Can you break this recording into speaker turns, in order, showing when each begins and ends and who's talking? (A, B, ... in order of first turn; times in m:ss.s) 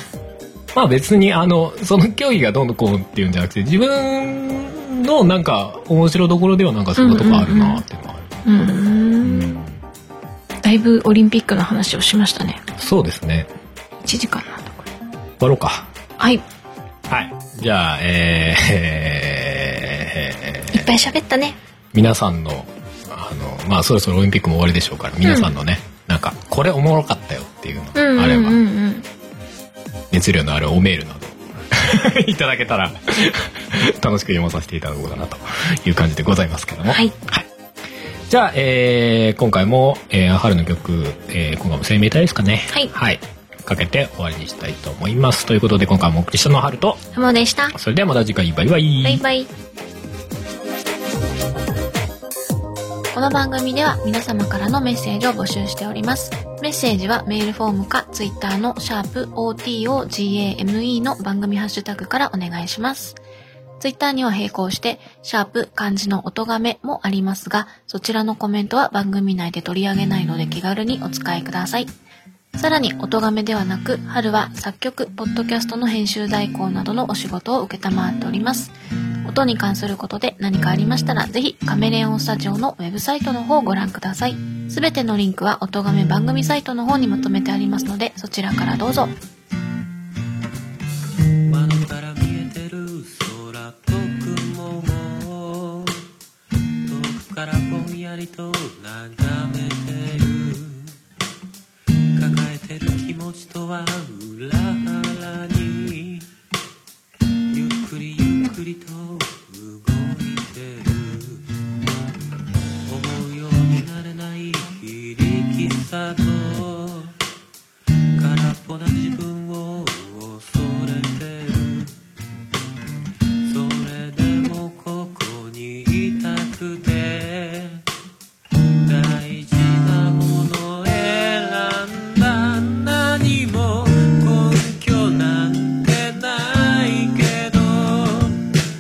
0:00.8-0:08.3 A
0:07.0-0:07.8 B
0:08.4-0:09.6 B
0:09.2-0:09.8 A
0:10.6-0:12.6 B
0:12.8-0:13.5 A
0:14.0-0:14.9 B
0:15.4-0:15.9 A
0:16.2-0:16.4 B
0:17.1-0:20.9 A
0:20.7-0:21.6 B
0:21.9-0:28.6 A
0:25.2-0:25.6 B
0:28.0-0:29.1 B
0:30.1-0:37.5 A
0:36.9-0:37.1 B
0:38.3-0:47.0 A
0:47.1-0:47.7 B
0:47.7-0:49.2 A
0:49.0-0:49.5 B
0:53.1-1:03.2 B
1:03.8-1:11.9 B
1:12.6-1:18.7 B
1:19.2-1:29.2 B
1:31.5-1:36.0 C
1:36.8-1:41.0 C
1:42.1-1:46.3 C
1:47.5-1:51.4 C
1:52.9-1:57.2 C
1:58.2-2:02.0 C
2:03.4-2:07.8 C
2:08.8-2:18.4 C